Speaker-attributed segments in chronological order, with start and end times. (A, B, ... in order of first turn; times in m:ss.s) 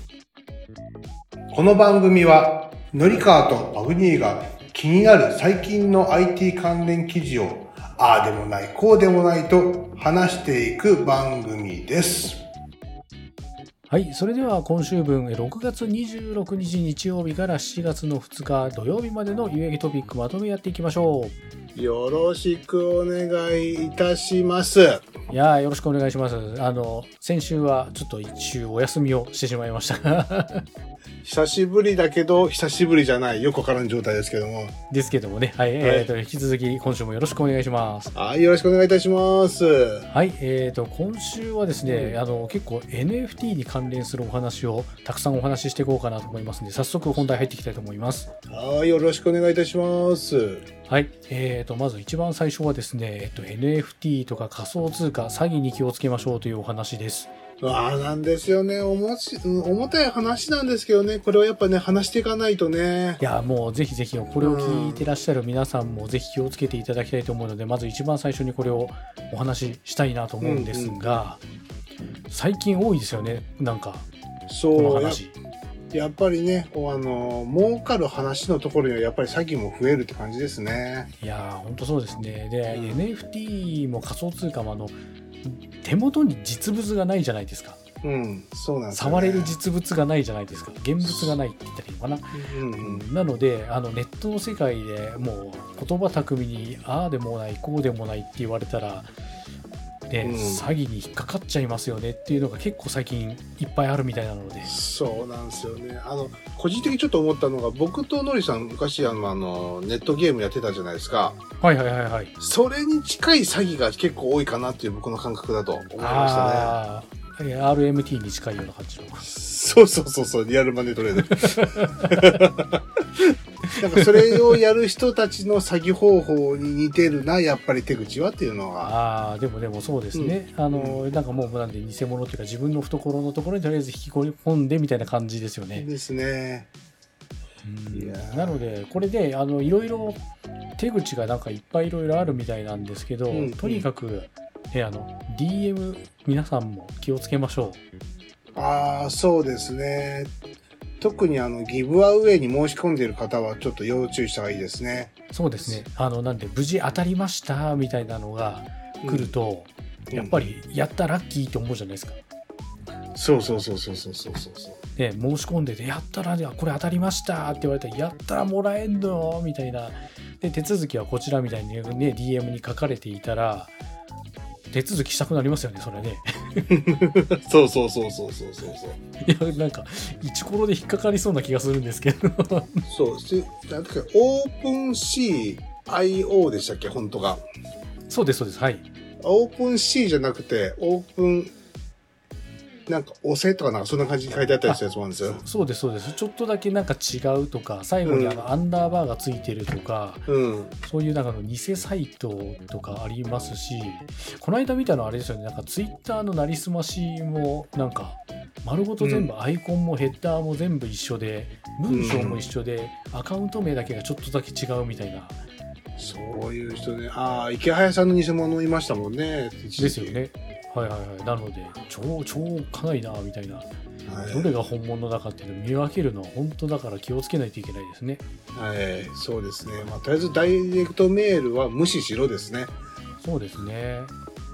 0:01.5-0:12.4 A
0:13.9-0:21.4 B
0:21.7-0:25.1 A
0:25.3-0:30.6 B
0:31.2-0:34.8 A
0:34.9-0:38.1 B
0:35.8-0:36.1 A
0:38.2-0:40.1 A
0:40.1-0:48.3 B
0:41.9-0:42.2 A
0:48.5-0:50.6 A
0:50.9-0:57.3 B
0:57.6-1:03.2 A
1:03.2-1:11.4 B
1:04.4-1:05.1 A
1:10.4-1:11.2 A
1:12.3-1:14.1 B
1:14.5-1:15.2 A
1:14.8-1:15.4 B
1:15.9-1:21.1 A
1:21.2-1:27.8 B
1:22.7-1:23.0 A
1:28.0-1:29.5 A
1:28.9-1:39.1 B
1:31.0-1:31.3 A
1:32.3-1:33.0 A
1:40.1-1:44.7 B
1:40.2-1:40.6 A
1:44.6-1:51.4 A
1:51.6-1:52.4 B
1:52.4-1:56.8 A
1:56.0-1:59.3 B
1:59.2-2:08.9 A
2:01.2-2:02.4 B
2:03.6-2:04.6 B
2:08.8-2:15.9 B
2:10.1-2:11.0 A
2:15.8-2:16.7 A
2:17.6-2:20.2 B
2:17.9-2:18.6 A
2:20.8-2:27.8 B
2:23.3-2:23.9 A
2:28.6-2:30.3 A
2:31.0-2:35.1 A
2:35.3-2:42.2 B
2:39.0-2:39.3 A
2:40.1-2:40.5 A
2:43.2-2:44.8 A
2:45.0-2:53.7 B
2:54.7-2:56.9 B
2:56.7-2:59.0 A
2:59.2-3:02.8 B
3:02.9-3:07.4 A
3:08.1-3:08.8 B
3:09.2-3:11.5 A
3:12.9-3:15.4 A
3:15.4-3:20.3 B
3:18.0-3:18.5 A
3:20.3-3:20.8 A
3:20.8-3:35.4 B
3:29.0-3:29.3 A
3:31.9-3:32.4 A
3:36.0-3:40.2 A
3:39.8-3:43.7 B
3:44.1-3:44.5 A
3:44.3-3:48.2 B
3:48.6-3:52.7 A
3:53.2-3:54.1 B